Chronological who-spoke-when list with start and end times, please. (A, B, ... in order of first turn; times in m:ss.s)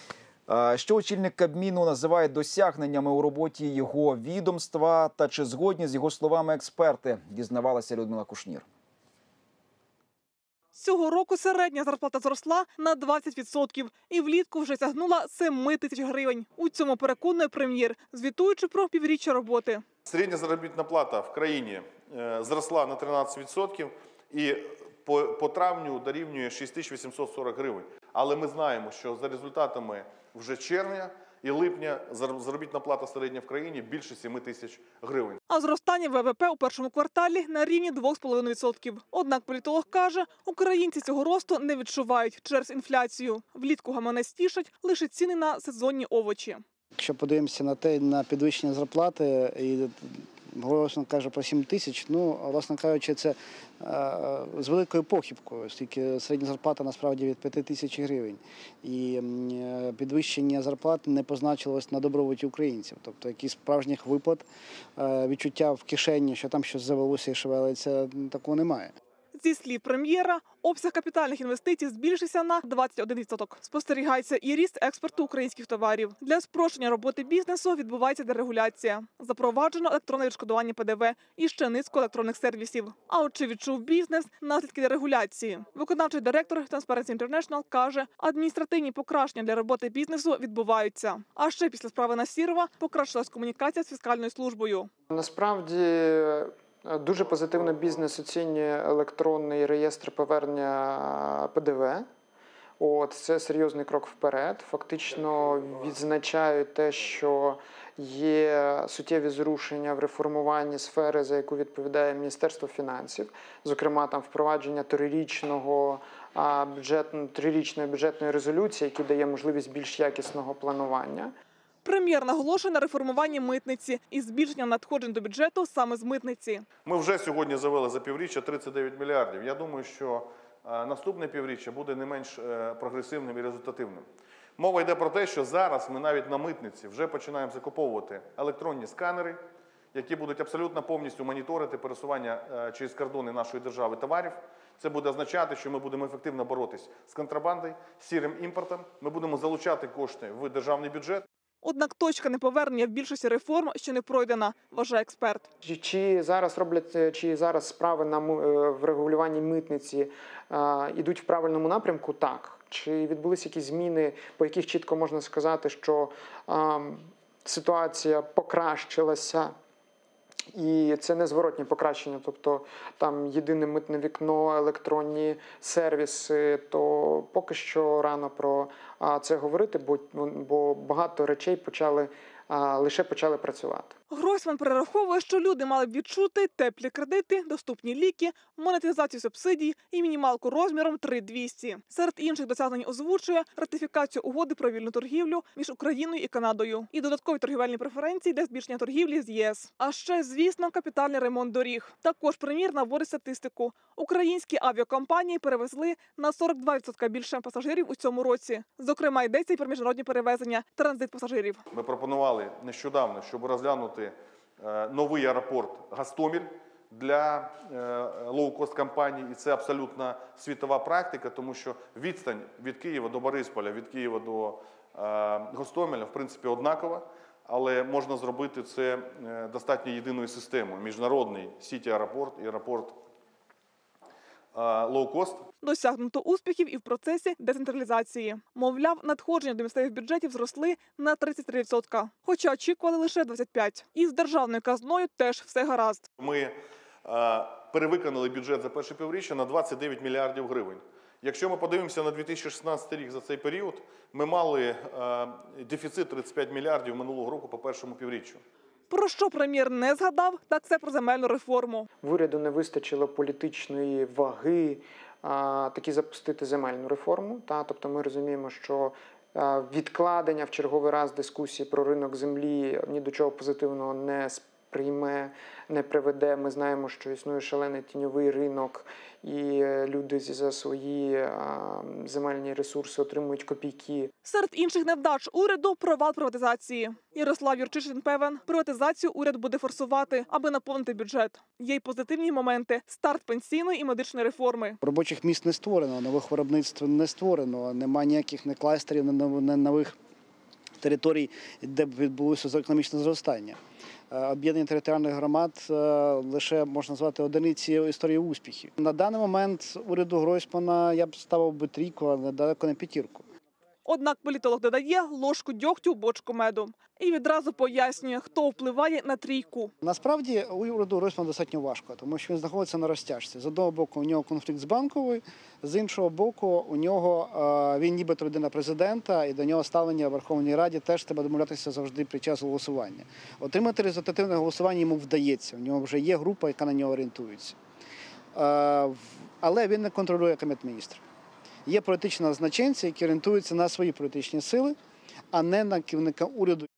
0:00.5-0:08.6 A
0:10.7-0:19.8 B
0:20.1-0:35.4 C
0:35.5-0:46.6 B
0:47.0-1:04.4 D
1:05.0-1:08.9 D
1:09.3-1:34.9 B
1:35.1-1:42.1 E
1:42.8-2:01.3 E
2:01.8-2:06.7 B
2:06.8-2:14.1 C
2:14.6-2:19.4 C
2:19.9-2:31.3 C
2:31.6-2:35.5 B
2:35.6-2:49.5 E
2:50.5-3:03.9 E
3:04.1-3:31.6 B
3:31.7-3:53.0 C
3:54.5-3:55.5 C
3:55.6-4:06.0 B
4:06.2-4:18.4 C
4:18.9-4:21.9 B
4:22.0-4:44.1 E
4:44.2-4:54.8 B
4:54.8-5:00.0 D
5:00.8-5:03.6 D
5:04.1-5:13.2 D
5:13.8-5:19.7 B
5:19.8-5:37.6 D
5:38.3-5:41.0 D
5:41.7-5:44.8 D
5:45.3-5:46.7 D